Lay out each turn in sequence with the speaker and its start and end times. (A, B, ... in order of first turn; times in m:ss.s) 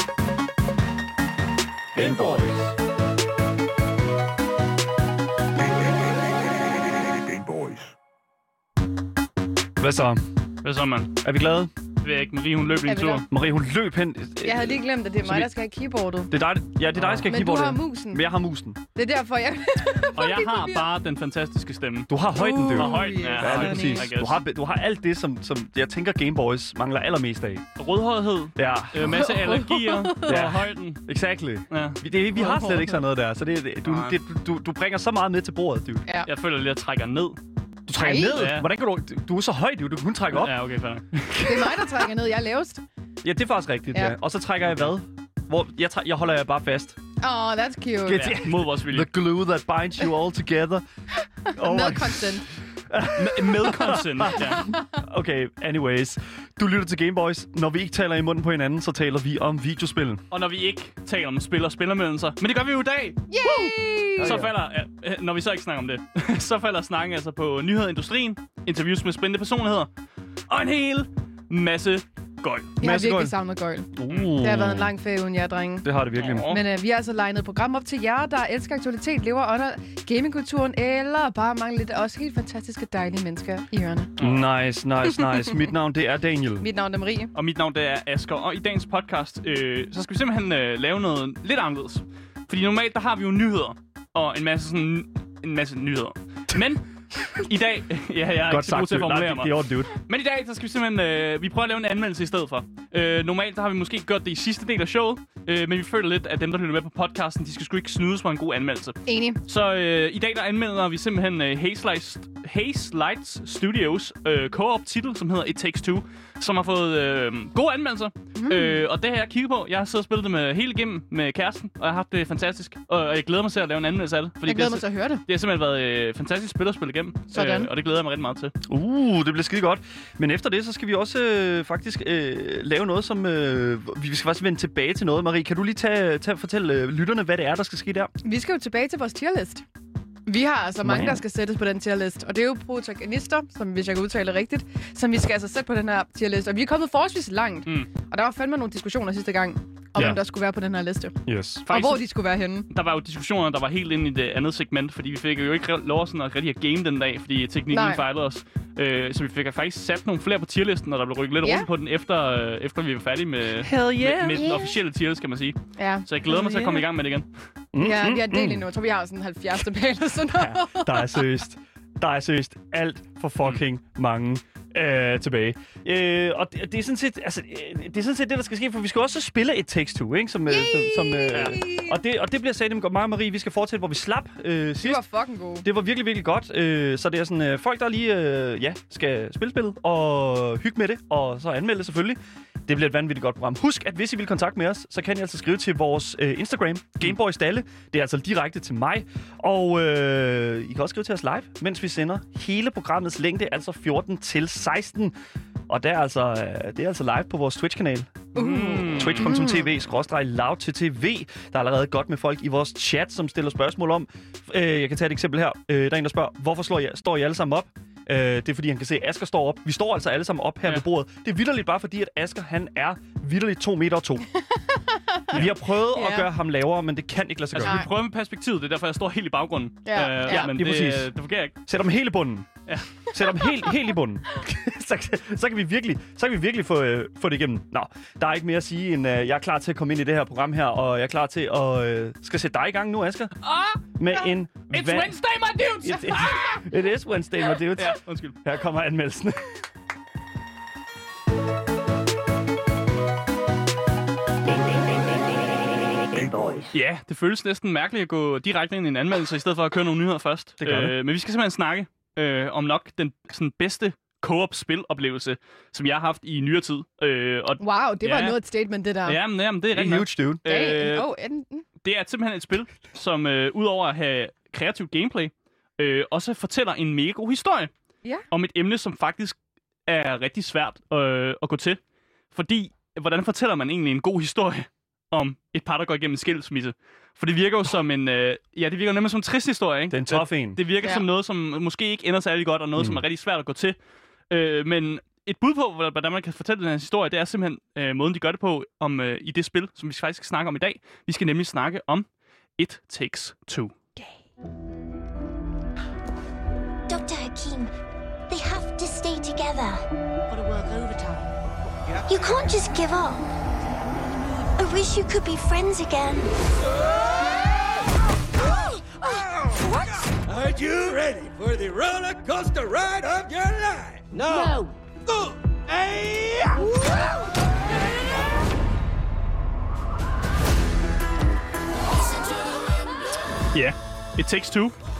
0:02.0-0:02.3 A
0:02.0-0:02.5 B
0:05.7-0:06.0 B
0:09.8-0:10.2 A
0:10.6-0:11.1 C
0:11.2-0:11.7 A
0:12.0-0:13.2 C
0:12.8-0:13.2 D
0:13.3-0:15.5 A
0:14.4-0:16.3 D
0:16.3-0:18.8 A
0:17.0-0:17.2 C
0:17.2-0:18.2 D
0:19.0-0:20.9 D
0:20.2-0:22.1 C
0:22.1-0:27.6 A
0:22.3-0:24.1 D
0:22.7-0:24.4 C
0:27.8-0:31.0 C
0:28.6-0:29.3 A
0:29.0-0:30.5 D
0:30.2-0:36.0 A
0:31.7-0:32.0 C
0:32.4-0:33.0 D
0:33.8-0:34.2 C
0:36.2-0:37.4 C
0:37.9-0:40.5 A
0:38.0-0:38.4 D
0:38.1-0:38.6 C
0:40.3-0:41.8 C
0:41.4-0:42.8 D
0:43.2-0:47.0 A
0:47.2-0:48.4 D
0:48.0-0:50.8 A
0:48.1-0:49.1 C
0:51.5-0:52.4 D
0:51.5-1:00.2 A
0:53.2-0:54.7 C
0:54.4-0:55.0 D
1:00.3-1:09.9 C
1:03.3-1:04.4 D
1:04.2-1:04.5 A
1:10.5-1:12.7 C
1:12.8-1:15.9 D
1:12.8-1:13.3 A
1:13.9-1:14.9 A
1:15.8-1:16.5 A
1:16.1-1:16.6 C
1:16.4-1:24.1 D
1:24.2-1:24.5 C
1:24.2-1:26.7 A
1:25.1-1:25.5 D
1:26.6-1:27.3 D
1:27.3-2:08.5 C
1:38.4-1:39.9 A
1:49.0-1:49.4 D
1:58.4-1:58.8 D
2:04.4-2:05.2 D
2:07.3-2:07.7 D
2:08.6-2:18.1 A
2:18.2-2:19.6 D
2:20.2-2:32.7 D
2:20.8-2:21.2 A
2:31.2-2:31.7 A
2:31.6-2:32.0 C
2:32.7-2:47.3 C
2:37.7-2:38.0 D
2:41.4-2:41.7 D
2:43.6-2:44.6 A
2:44.3-2:44.8 D
2:45.8-2:46.1 D
2:46.2-2:46.9 A
2:47.7-2:48.6 A
2:47.8-2:51.2 D
2:50.3-3:05.0 A
3:00.5-3:02.0 D
3:04.8-3:05.6 D
3:05.6-3:25.1 A
3:25.7-3:44.3 A
3:28.3-3:29.3 C
3:28.4-3:29.6 D
3:44.5-3:46.3 D
3:45.3-3:47.8 A
3:47.5-3:51.6 C
3:49.8-3:50.5 D
3:50.2-3:51.1 A
3:51.6-4:03.4 A
3:52.6-3:53.0 C
3:53.2-3:53.7 D
4:03.4-4:06.6 C
4:03.9-4:09.6 A
4:07.7-4:08.4 C
4:14.4-4:16.7 E
4:16.7-4:28.4 C
4:20.6-4:20.9 A
4:27.6-4:29.2 D
4:29.0-4:31.0 C
4:29.7-4:30.4 A
4:30.4-4:31.6 D
4:31.8-4:37.7 C
4:38.3-4:41.8 C
4:42.3-4:53.8 C
4:49.9-4:50.6 A
4:52.8-4:53.0 A
4:54.3-5:02.1 C
5:02.6-5:03.8 C
5:06.9-5:07.7 E
5:08.3-5:11.2 E
5:12.0-5:13.2 E
5:14.5-5:16.3 E
5:16.8-5:17.2 B
5:18.5-5:20.1 E
5:20.2-5:27.0 B
5:24.3-5:24.7 E
5:33.5-5:34.7 C